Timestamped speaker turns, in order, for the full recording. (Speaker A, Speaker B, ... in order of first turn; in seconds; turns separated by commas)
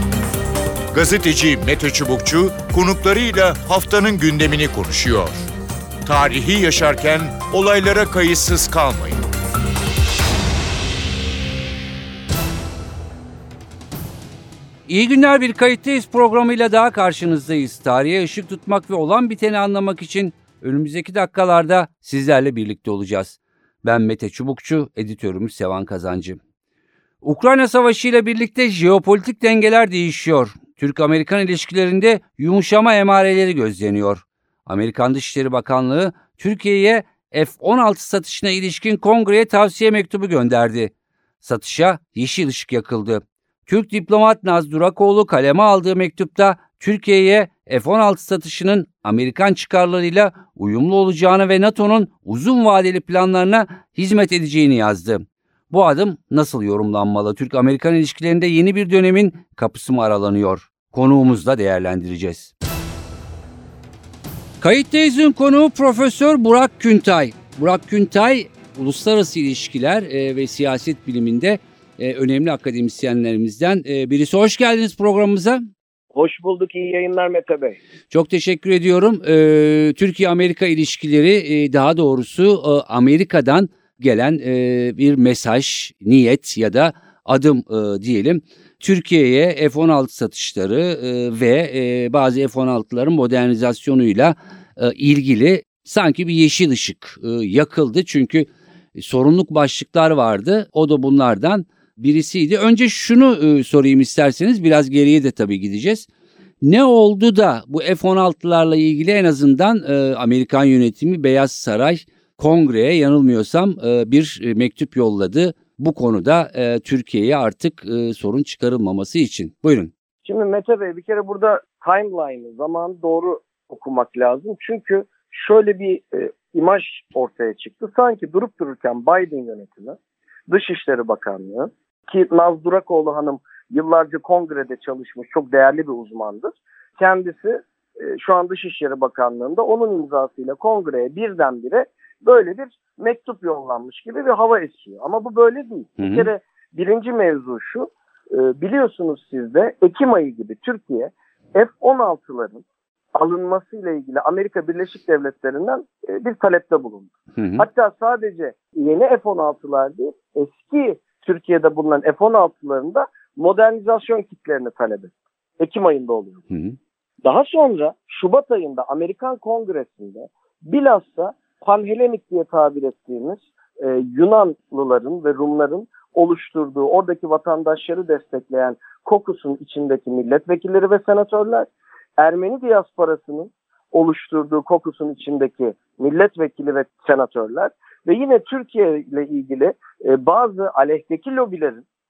Speaker A: 0.9-5.4, Speaker A: 6.0-9.2, Speaker B: 14.9-26.4, Speaker B: 27.2-62.5, Speaker B: 64.6-75.6, Speaker C: 76.1-77.8, Speaker B: 78.1-106.1, Speaker B: 106.6-119.9, Speaker C: 120.2-130.0, Speaker C: 130.5-152.6, Speaker B: 146.0-146.3, Speaker C: 153.1-166.4, Speaker B: 157.3-157.6, Speaker B: 166.5-166.8, Speaker C: 167.2-191.8